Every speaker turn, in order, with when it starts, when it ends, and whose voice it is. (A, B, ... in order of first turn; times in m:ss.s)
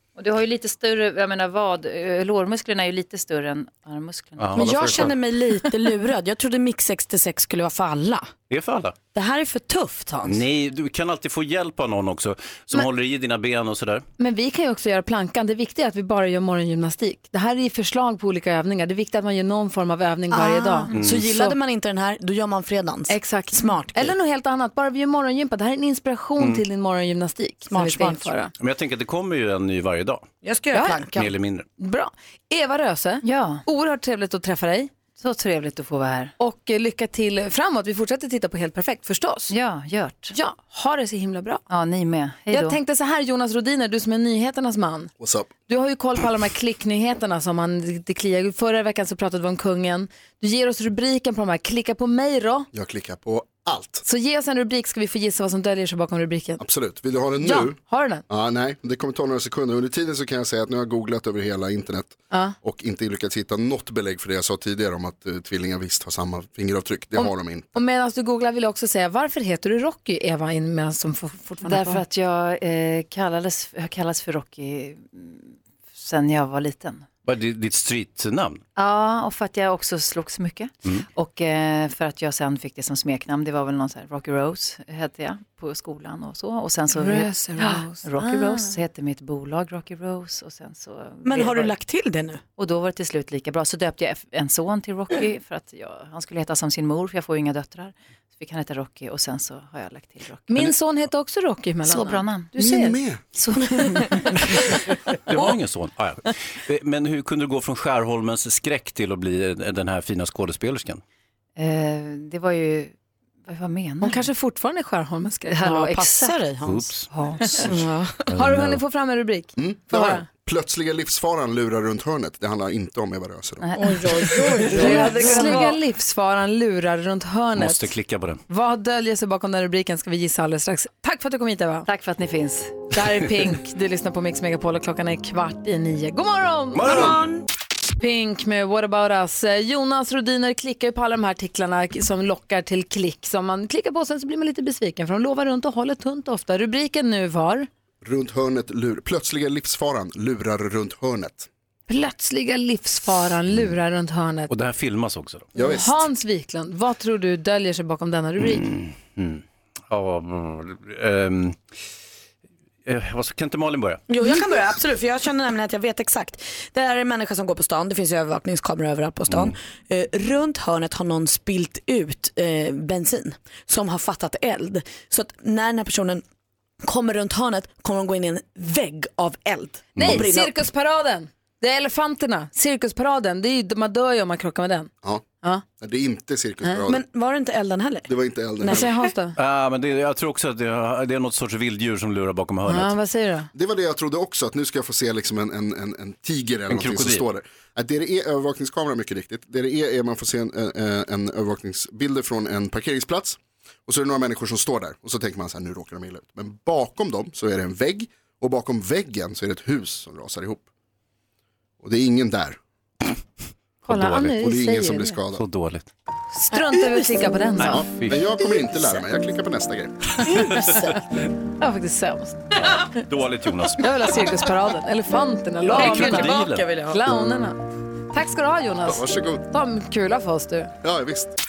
0:00.2-0:05.1 A
0:04.4-0:05.2 B
0:04.5-0:08.3 C
0:08.5-0:09.0 B
0:09.1-0:10.4 C
0:10.3-0:14.0 B
0:14.2-0:21.6 D
0:20.3-0:24.1 C
0:20.9-0:21.2 B
0:23.1-0:28.5 D
0:27.7-0:28.4 C
0:28.6-0:30.3 B
0:30.4-0:31.3 C
0:30.7-0:31.0 D
0:31.1-0:31.7 B
0:31.8-0:34.9 D
0:33.2-0:33.6 A
0:35.2-0:36.3 A
0:36.4-0:39.5 D
0:39.5-0:40.4 A
0:40.3-0:41.6 D
0:41.7-0:42.8 A
0:42.5-0:45.1 D
0:45.2-0:45.5 E
0:45.7-0:52.7 D
0:52.7-0:54.0 E
0:54.0-0:56.6 D
0:56.6-0:57.8 E
0:57.4-0:58.2 D
0:58.3-1:07.8 E
1:02.3-1:02.6 D
1:07.2-1:12.0 D
1:11.6-1:17.1 A
1:17.2-1:18.6 B
1:18.8-1:31.8 A
1:27.0-1:28.7 C
1:27.6-1:28.4 D
1:31.2-1:32.4 C
1:32.6-1:40.7 A
1:40.5-1:42.7 D
1:41.8-1:43.0 A
1:42.6-1:43.3 E
1:43.7-1:44.1 C
1:43.7-1:44.7 A
1:45.3-1:51.0 B
1:51.6-1:52.9 A
1:53.5-1:54.3 A
1:54.0-1:56.3 D
1:55.5-1:56.4 A
1:55.7-1:56.9 C
1:56.6-1:57.1 B
1:57.1-1:57.7 A
1:57.5-1:57.7 D
1:57.6-1:58.2 C
1:58.3-2:00.3 D
1:58.3-1:58.8 B
1:59.6-2:03.7 E
2:03.6-2:05.4 A
2:03.8-2:05.8 C
2:04.2-2:07.9 D
2:07.6-2:08.4 B
2:08.5-2:11.9 D
2:11.9-2:12.9 A
2:12.9-2:17.2 D
2:16.7-2:17.2 B
2:16.8-2:17.4 C
2:18.0-2:27.7 D
2:28.0-2:31.5 E
2:31.9-2:34.5 D
2:34.5-2:35.5 B
2:35.6-2:36.1 E
2:35.6-2:38.7 D
2:38.4-2:41.6 B
2:42.8-2:44.0 B
2:44.1-2:56.2 C
2:49.3-2:49.6 B
2:56.8-3:00.5 C
3:00.0-3:00.3 B
3:00.0-3:04.9 D
3:05.0-3:07.0 E
3:06.8-3:08.1 C
3:08.1-3:08.9 E
3:08.6-3:08.9 C
3:08.6-3:09.4 D
3:09.4-3:13.0 B
3:12.7-3:13.5 D
3:13.5-3:30.7 E
3:16.7-3:17.3 B
3:31.8-3:32.6 E
3:33.8-3:35.2 D
3:33.9-3:34.4 B
3:34.4-3:35.4 E
3:35.3-3:35.9 B
3:36.3-3:37.8 D
3:36.6-3:37.2 C
3:37.6-3:38.3 B
3:37.7-3:40.0 E
3:40.2-3:41.0 C
3:41.6-3:43.0 D
3:43.0-3:44.1 B
3:43.8-3:47.6 D
3:45.6-3:47.0 C
3:45.7-3:46.7 B
3:48.1-3:50.7 D
3:48.8-3:49.4 E
3:50.8-3:51.3 E